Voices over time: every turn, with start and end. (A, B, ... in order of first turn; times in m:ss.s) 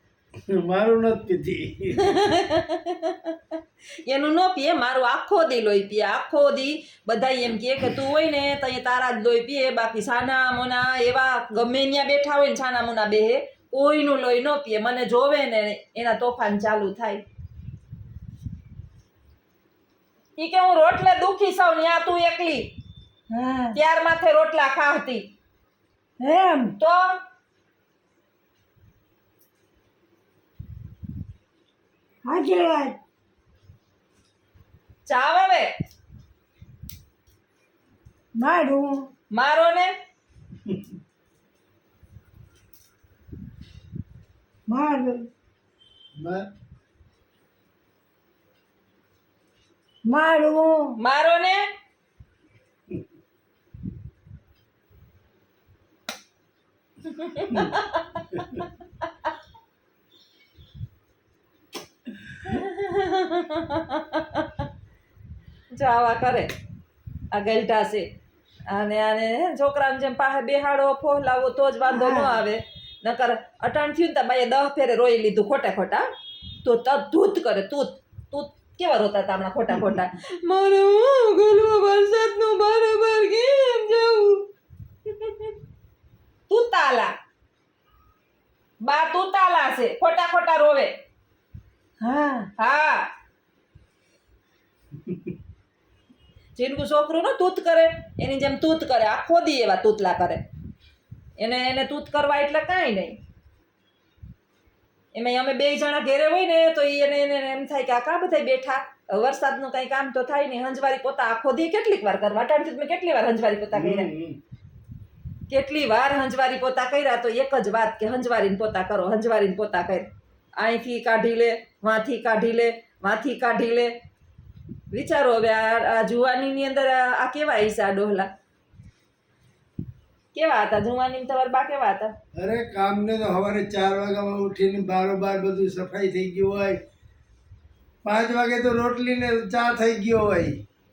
0:00.5-0:02.0 A
0:02.0-0:17.2 B
0:20.4-0:22.7 B
0:23.3-0:23.8 C
0:23.7-0:25.2 B
0:26.2-0:26.7 C
0:26.8-0:27.1 B
0:32.2-0:33.0 C
0:35.0-0:35.7 B
0:38.4-0:39.0 C
0:39.3-0:39.9 B
0:44.7-0:45.2 C
0:46.2-0:46.4 A
0:50.0-0:50.9 C
0:51.0-0:51.6 B
0:57.1-0:58.6 B
1:02.4-1:04.7 B
1:05.7-1:06.5 B
1:07.3-1:08.1 B
1:08.7-1:16.1 B
1:11.8-1:12.4 C
1:16.6-1:24.5 B
1:25.1-1:25.5 B
1:26.5-1:27.1 B
1:28.8-1:30.9 B
1:32.0-1:32.5 C
1:32.6-1:33.0 B
1:36.6-1:40.4 B
1:41.4-1:43.2 B
1:45.1-1:54.1 B
1:53.7-1:54.4 A
1:55.5-2:00.1 B
2:00.6-2:03.9 B
2:04.9-2:08.3 B
2:10.3-2:12.1 B
2:12.4-2:16.8 A
2:18.0-2:20.6 A